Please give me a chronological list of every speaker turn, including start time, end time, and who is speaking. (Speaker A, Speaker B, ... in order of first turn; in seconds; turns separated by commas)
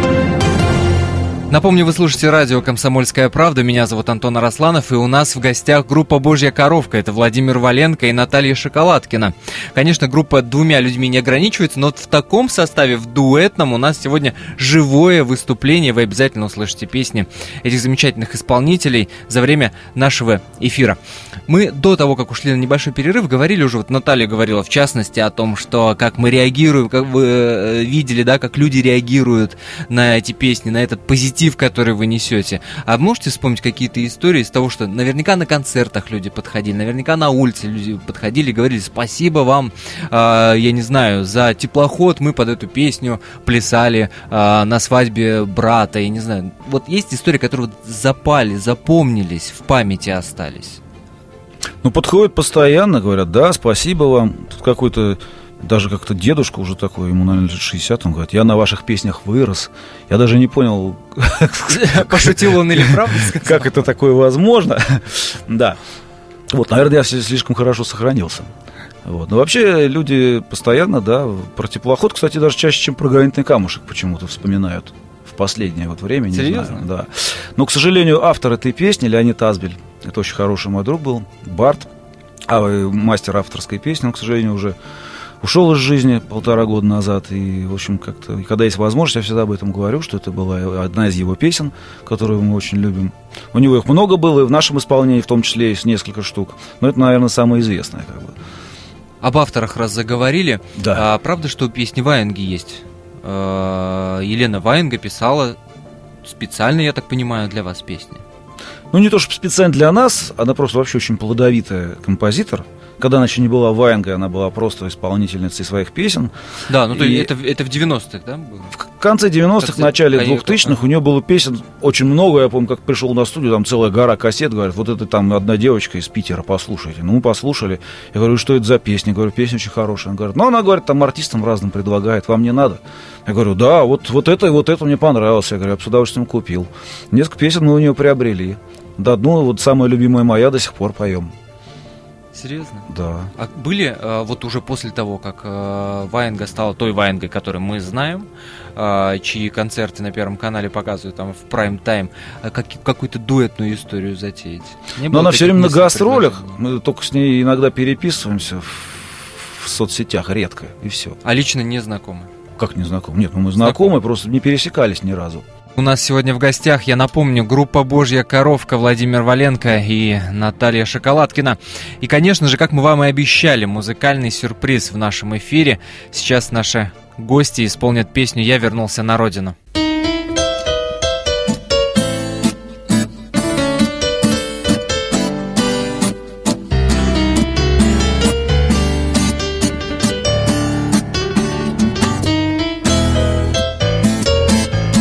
Speaker A: 1.5-50.8, Speaker B: 51.8-65.8, Speaker A: 61.7-63.8, Speaker B: 66.5-68.5, Speaker B: 69.0-81.9, Speaker A: 76.3-76.8, Speaker B: 82.5-84.8, Speaker B: 85.4-98.3, Speaker A: 99.2-105.6, Speaker B: 100.8-101.0, Speaker A: 106.2-108.2, Speaker B: 108.9-116.3, Speaker A: 116.7-118.7, Speaker B: 116.9-117.3, Speaker B: 118.8-141.3, Speaker A: 119.6-120.7, Speaker A: 142.3-156.5, Speaker B: 142.9-143.3, Speaker B: 155.1-161.2, Speaker A: 161.2-162.3, Speaker B: 162.6-165.4, Speaker A: 163.6-163.9, Speaker A: 165.8-179.6